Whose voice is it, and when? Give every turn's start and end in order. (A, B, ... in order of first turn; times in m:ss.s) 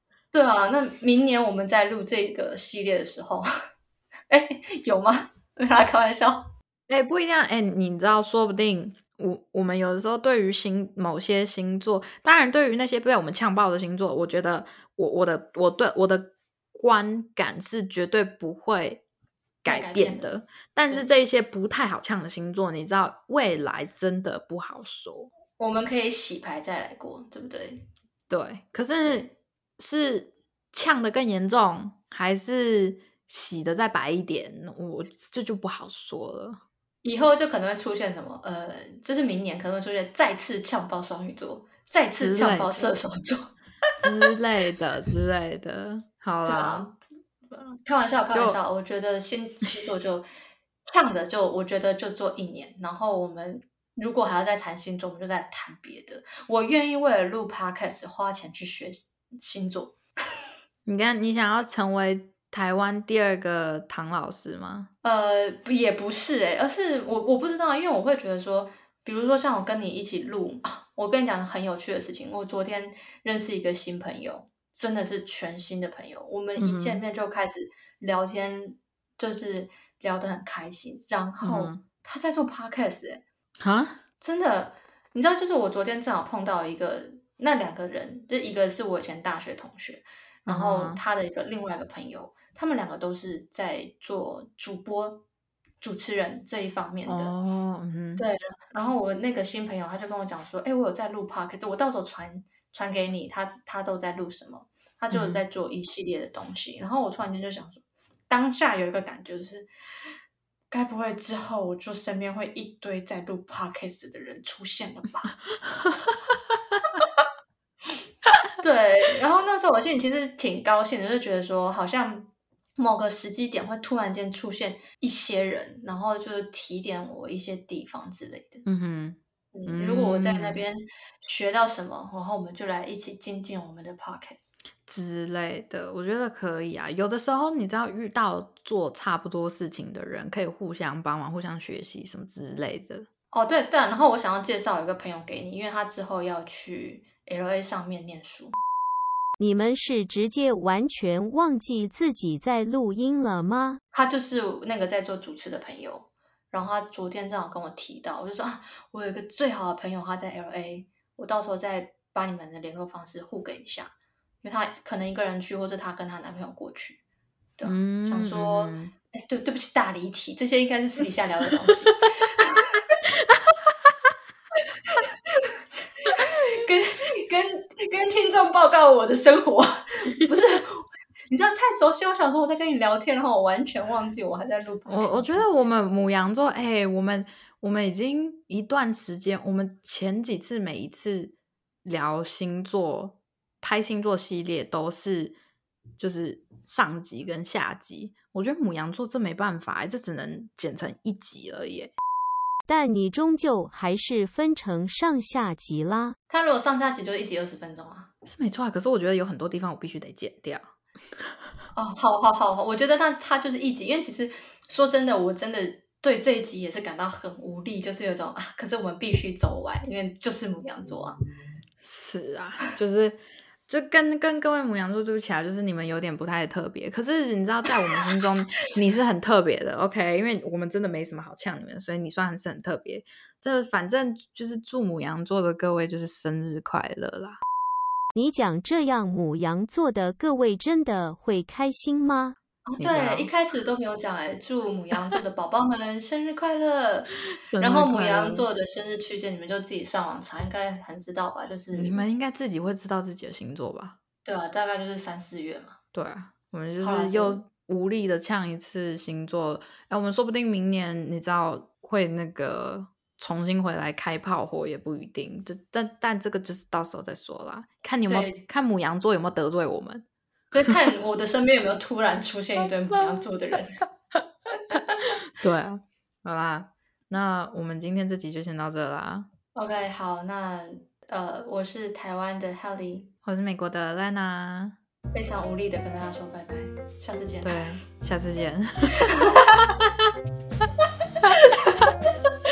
0:00.3-0:03.5 A
0:04.3-0:06.5 A
0:06.9-0:19.0 B
0:19.6-0:25.3 B
0:19.6-0:20.3 A
0:25.6-0:27.9 A
0:28.3-0:29.2 B
0:29.0-0:29.3 A
0:29.8-0:36.6 B
0:37.0-0:43.5 A
0:42.2-0:43.0 B
0:44.0-0:46.9 B
0:46.4-0:47.0 A
0:47.5-0:50.3 A
0:48.3-0:48.6 B
0:50.8-1:00.0 A
1:00.8-1:04.9 B
1:05.0-1:23.2 A
1:16.6-1:17.0 B
1:21.4-1:21.8 B
1:23.6-1:24.0 B
1:24.2-1:35.2 A
1:30.5-1:31.0 B
1:35.8-1:37.3 A
1:37.0-1:38.2 B
1:38.2-1:49.7 A
1:45.1-1:45.4 B
1:50.7-1:55.3 A
1:58.6-2:08.6 A
2:08.6-2:10.6 B
2:09.5-2:14.5 A
2:14.8-2:23.1 B
2:23.3-2:28.6 A
2:29.4-2:33.8 C
2:33.9-2:47.0 A
2:47.6-2:52.8 A
2:47.6-2:48.9 B
2:56.0-3:05.5 A
3:04.8-3:15.4 B
3:16.0-3:21.9 B
3:22.7-3:26.1 C
3:26.3-3:28.1 A
3:28.2-3:30.7 B
3:31.7-3:41.2 A
3:41.8-3:57.4 B
3:58.1-4:02.4 C
4:02.7-4:12.0 A
4:02.8-4:03.3 B
4:07.2-4:08.5 B
4:11.7-4:14.0 B
4:14.2-4:15.8 A
4:15.9-4:30.0 B
4:16.8-4:17.4 A
4:28.1-4:28.4 A
4:30.5-4:33.8 A
4:32.6-4:33.2 B
4:34.7-4:35.1 A
4:35.3-4:39.3 B
4:39.5-4:43.1 A
4:43.2-4:44.8 B
4:45.1-4:47.6 A
4:47.4-4:49.6 B
4:49.1-4:49.5 A